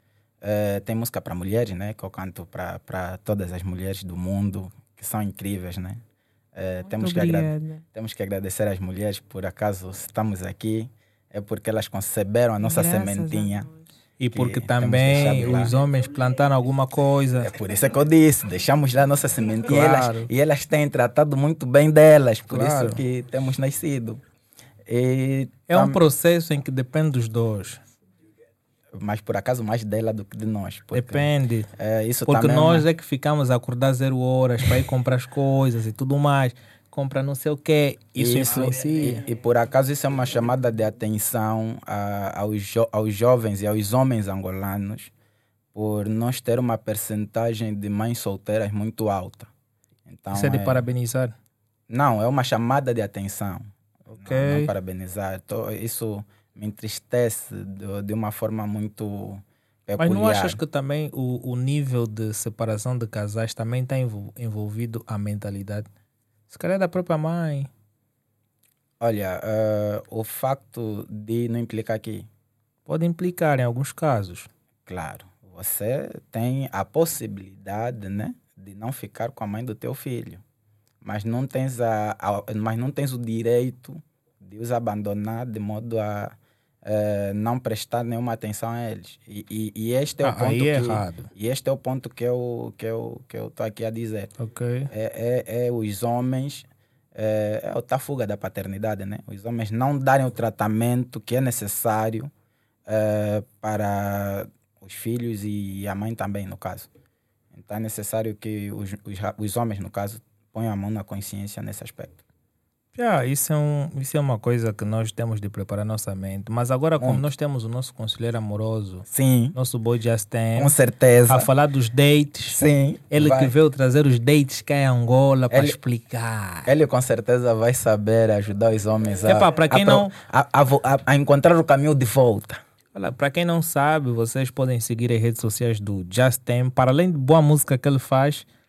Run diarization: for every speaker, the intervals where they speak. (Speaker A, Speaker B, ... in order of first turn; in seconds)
Speaker A: 0.4-6.0, 6.5-13.7, 14.3-15.8, 17.4-24.2, 24.9-26.0, 28.9-32.9, 38.1-45.1, 45.7-49.5, 50.1-50.9, 51.9-60.6, 69.0-72.3, 74.9-80.4, 81.0-94.3, 94.9-102.3, 102.9-106.9, 107.5-112.2, 117.0-117.2, 119.1-119.5, 120.5-121.5, 122.5-123.5, 125.5-125.8, 126.7-132.6
Speaker B: 6.8-7.8, 12.6-13.8
Speaker C: 14.2-17.5, 19.6-20.3, 22.5-23.0, 25.7-27.8, 30.9-31.7, 32.2-39.2, 50.3-51.3, 54.1-54.7, 60.0-65.9, 66.5-67.7, 72.8-74.5, 90.2-91.3, 94.4-94.9, 112.9-120.8, 121.3-122.6, 123.1-126.7, 129.2-130.1, 132.9-138.4